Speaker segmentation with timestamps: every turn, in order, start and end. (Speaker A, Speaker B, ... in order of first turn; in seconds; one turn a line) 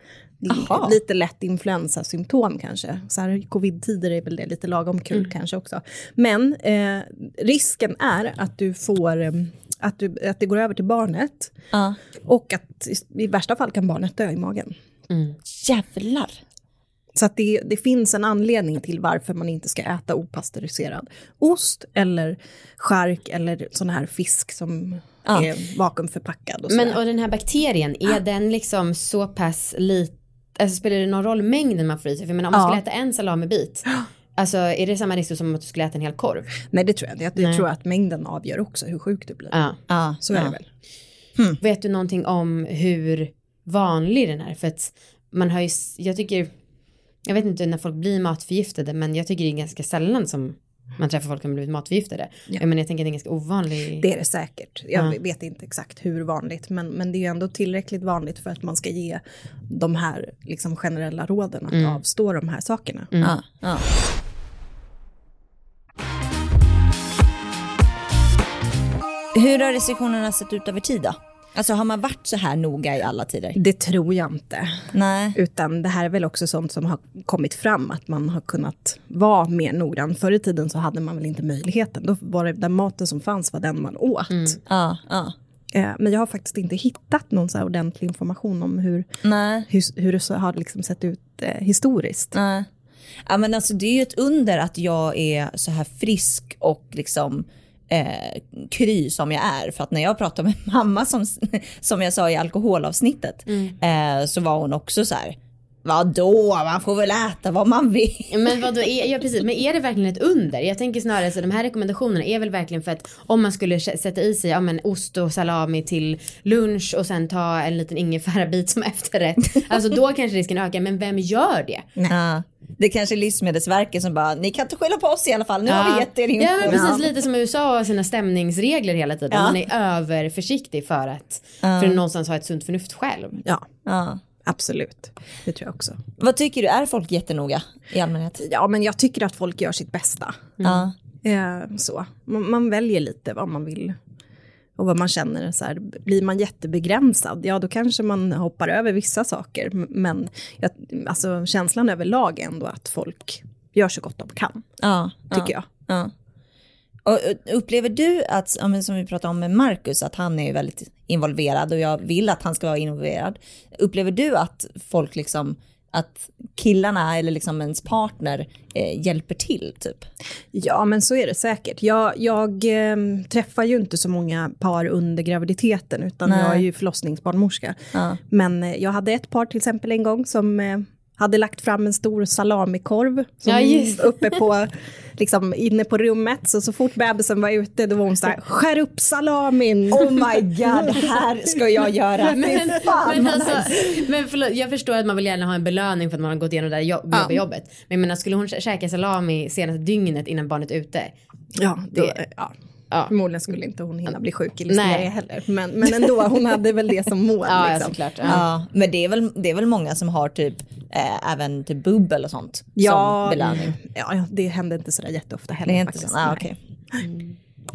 Speaker A: 0.4-11.5
Speaker B: 0.5-1.0
Speaker B: 11.7-12.0
Speaker A: 12.3-14.7
Speaker C: 15.1-15.4
Speaker B: 15.5-16.4
Speaker A: 17.1-27.0
Speaker B: 25.3-25.5
Speaker C: 26.7-36.5
Speaker A: 32.5-32.8
Speaker A: 36.7-39.5
Speaker C: 37.4-37.6
Speaker C: 39.5-39.8
Speaker B: 39.9-40.5
Speaker A: 40.2-40.6
Speaker C: 41.6-46.5
Speaker C: 47.2-54.1
Speaker A: 54.0-63.1
Speaker C: 61.7-62.0
Speaker C: 63.1-63.4
Speaker B: 63.2-63.8
Speaker B: 69.3-73.6
Speaker A: 73.6-84.6
Speaker B: 74.9-75.4
Speaker C: 84.3-84.6
Speaker B: 84.7-85.3
Speaker A: 85.7-89.1
Speaker B: 89.2-89.7
Speaker A: 89.7-92.3
Speaker B: 92.3-92.7
Speaker B: 93.3-108.6
Speaker C: 103.5-103.8
Speaker C: 108.3-121.9
Speaker B: 122.1-127.1
Speaker C: 125.7-133.4
Speaker B: 129.3-129.6
Speaker B: 131.6-132.0
Speaker B: 133.9-134.2
Speaker A: 134.4-136.0
Speaker B: 136.2-138.4
Speaker A: 138.4-140.5
Speaker C: 140.6-140.9
Speaker B: 140.6-140.9
Speaker A: 141.2-144.0
Speaker A: 144.8-154.8
Speaker B: 154.8-156.1
Speaker A: 155.3-155.7
Speaker B: 157.1-170.1
Speaker A: 170.5-191.1
Speaker B: 176.3-176.7
Speaker C: 183.5-184.4
Speaker B: 189.9-194.0
Speaker C: 192.3-201.1
Speaker A: 197.1-197.4
Speaker A: 201.6-202.5
Speaker A: 203.1-208.4
Speaker C: 204.7-205.1
Speaker C: 207.4-208.4
Speaker B: 208.3-213.7
Speaker A: 212.8-217.0
Speaker C: 213.4-213.7
Speaker B: 215.7-216.6
Speaker C: 217.0-217.3